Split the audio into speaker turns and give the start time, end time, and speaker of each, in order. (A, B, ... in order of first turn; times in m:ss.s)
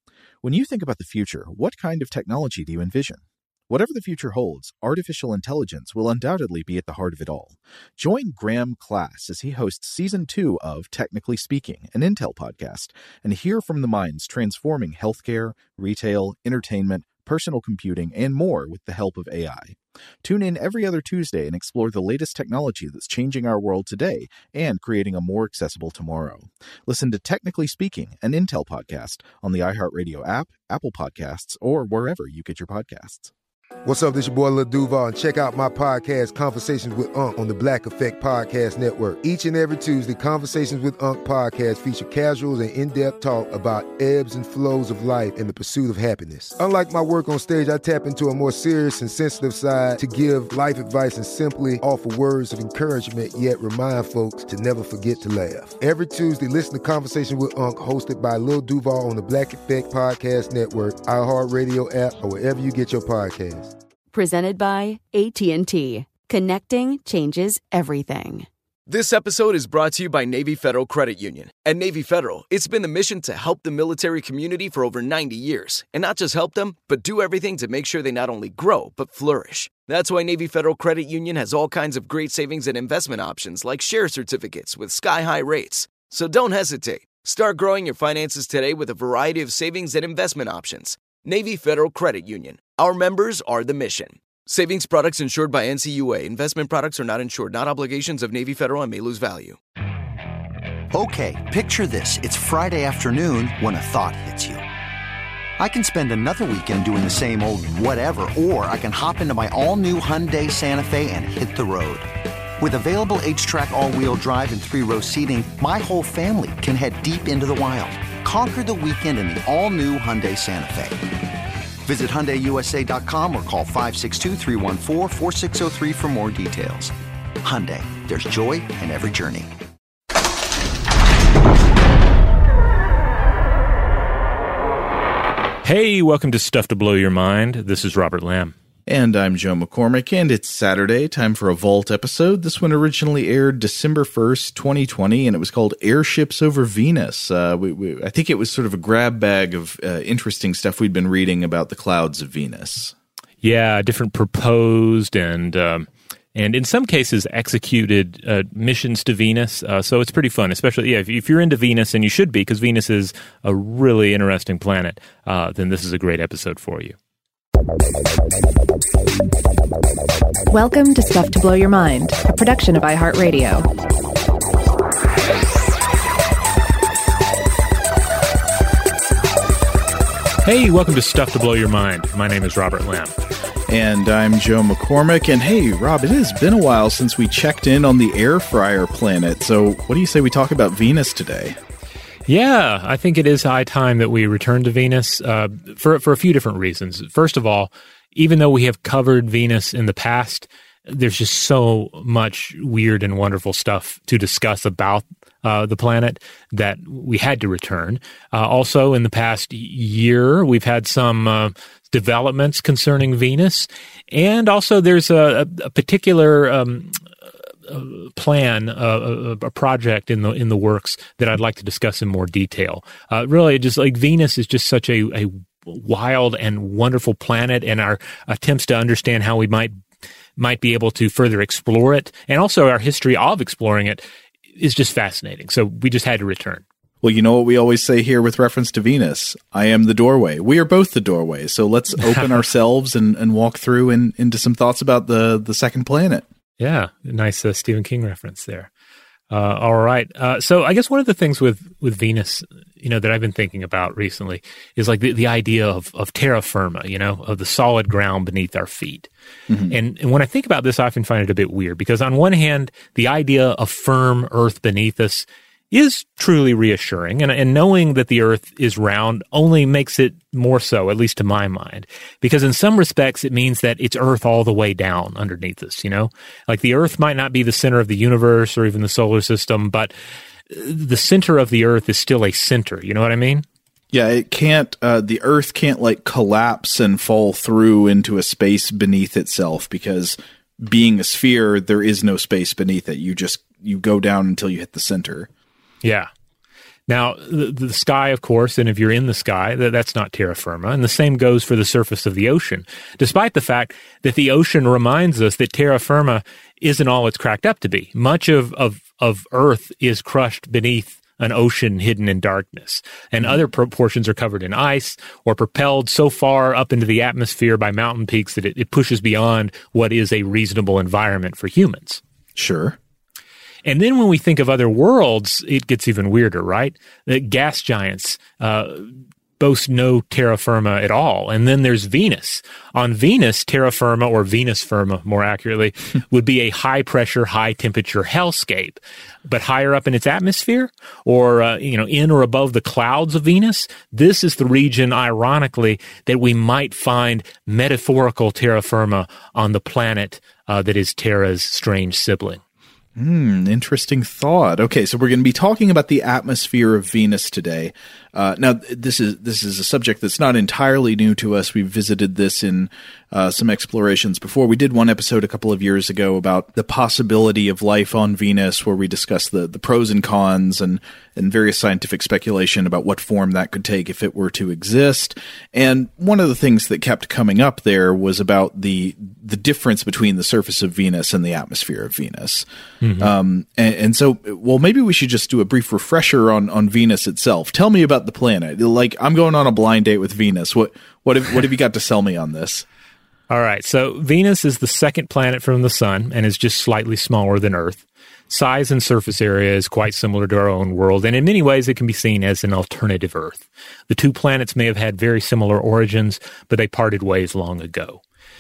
0:00.4-0:33.3 A
0:33.8-1:03.7 B
1:04.1-1:08.5 C
1:08.9-1:39.6 D
1:40.9-1:44.6 E
1:45.6-2:01.1 E
2:01.8-2:09.5 E
2:15.6-2:18.5 F
2:18.9-2:33.0 A
2:33.4-2:47.0 F
2:50.5-2:53.7 G
3:00.4-3:03.1 F
3:03.7-3:11.6 A
3:12.3-3:37.0 F
3:37.7-3:49.8 F
3:50.4-3:54.0 F
3:54.6-3:56.6 F
3:57.0-4:06.3 A
4:06.6-4:08.7 F
4:09.3-4:19.1 F
4:19.5-4:19.8 A
4:19.7-4:39.9 F
4:40.5-4:43.4 F
4:43.9-4:55.3 A
4:55.8-4:56.1 F
4:56.9-5:22.0 F
5:22.4-5:22.8 A
5:23.6-5:52.4 F
5:53.0-6:22.5 A
6:22.8-6:23.1 F
6:23.0-6:32.7 A
6:33.3-6:48.0 F